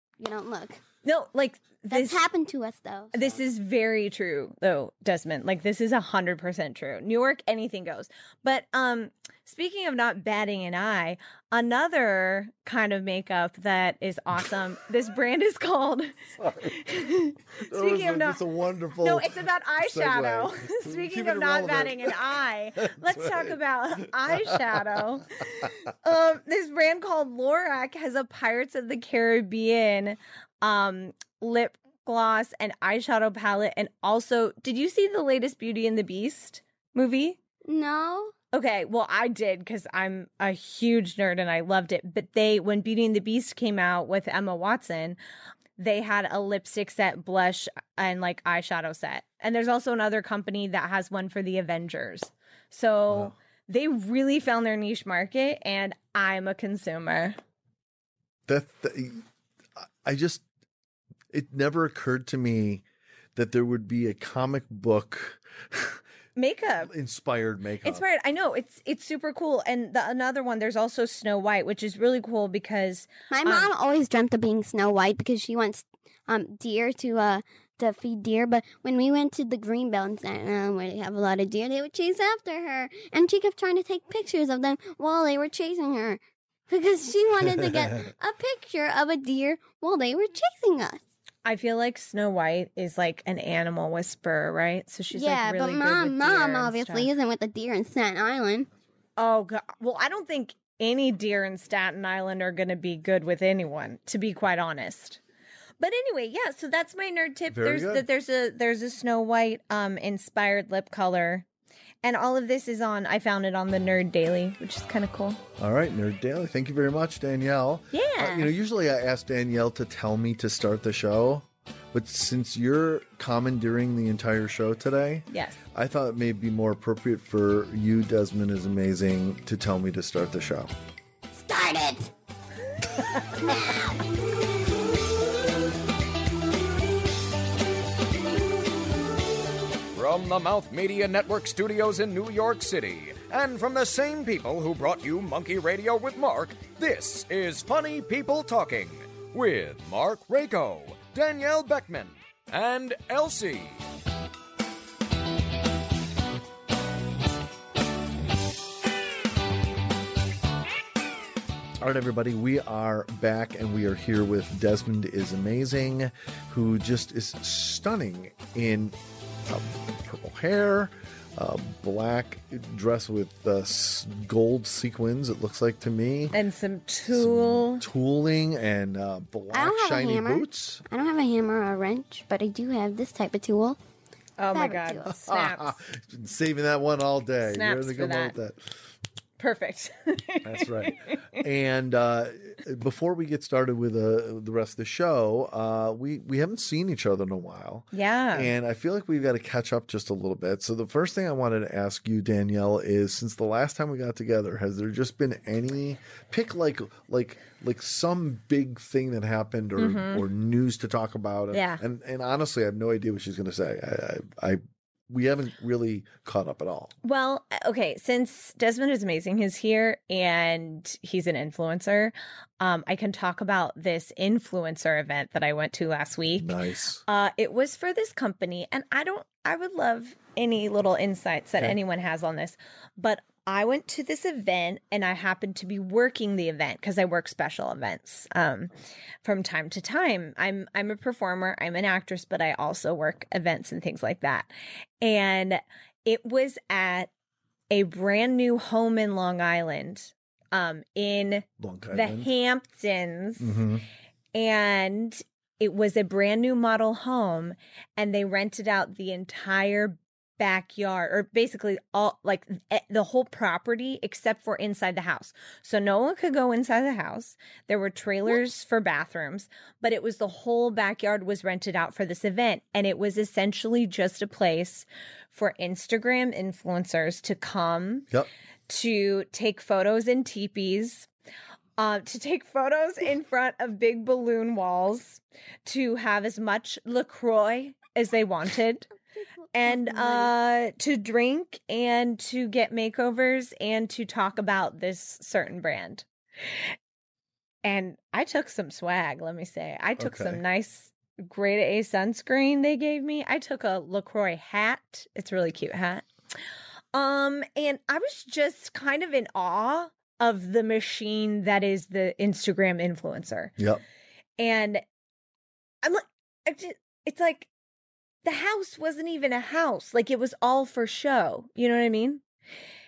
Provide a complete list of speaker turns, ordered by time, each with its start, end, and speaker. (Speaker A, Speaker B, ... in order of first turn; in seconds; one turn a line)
Speaker A: 0.2-0.8
Speaker B: 1.0-2.2
Speaker A: 1.9-3.4
Speaker B: 3.1-18.4
Speaker C: 16.4-16.7
Speaker C: 17.7-24.8
Speaker B: 19.0-37.4
Speaker A: 37.6-38.3
Speaker B: 38.5-45.2
Speaker B: 45.8-57.4
Speaker C: 53.1-53.3
Speaker C: 58.5-59.2
Speaker C: 60.0-60.4
Speaker C: 61.3-62.8
Speaker C: 63.3-66.0
Speaker B: 66.3-66.9
Speaker C: 66.8-68.0
Speaker B: 67.8-73.7
Speaker A: 73.3-91.0
Speaker B: 91.4-97.1
Speaker A: 95.1-98.7
Speaker B: 99.2-105.2
Speaker B: 105.8-111.5
Speaker C: 107.5-108.0
Speaker B: 112.0-115.4
Speaker C: 115.6-130.7
Speaker B: 117.9-118.5
Speaker B: 125.3-125.6
Speaker A: 131.3-132.1
Speaker A: 133.3-134.0
Speaker D: 139.9-153.8
Speaker C: 161.8-176.4
Speaker B: 176.3-177.8
Speaker C: 177.1-180.8
Speaker A: 179.5-183.8
Speaker B: 184.4-185.8
Speaker A: 184.5-185.1
Speaker C: 185.2-188.8
Speaker B: 187.4-188.3
Speaker B: 189.4-191.4
Speaker C: 190.4-216.9
Speaker B: 197.9-198.5
Speaker B: 209.8-210.2
Speaker B: 211.5-211.8
Speaker B: 217.0-226.5
Speaker C: 226.3-227.0
Speaker B: 227.1-238.7
Speaker B: 239.2-244.5
Speaker B: 245.0-247.1
Speaker B: 247.7-253.6
Speaker C: 251.6-252.3
Speaker C: 253.4-253.8
Speaker B: 254.3-278.1
Speaker B: 278.7-281.1
Speaker B: 281.8-288.9
Speaker B: 289.5-296.0
Speaker A: 289.6-290.3
Speaker B: 297.6-306.1
Speaker C: 300.0-300.4
Speaker B: 306.9-313.5
Speaker C: 313.6-313.8
Speaker B: 314.4-314.8
Speaker B: 315.8-317.5
Speaker B: 318.2-322.2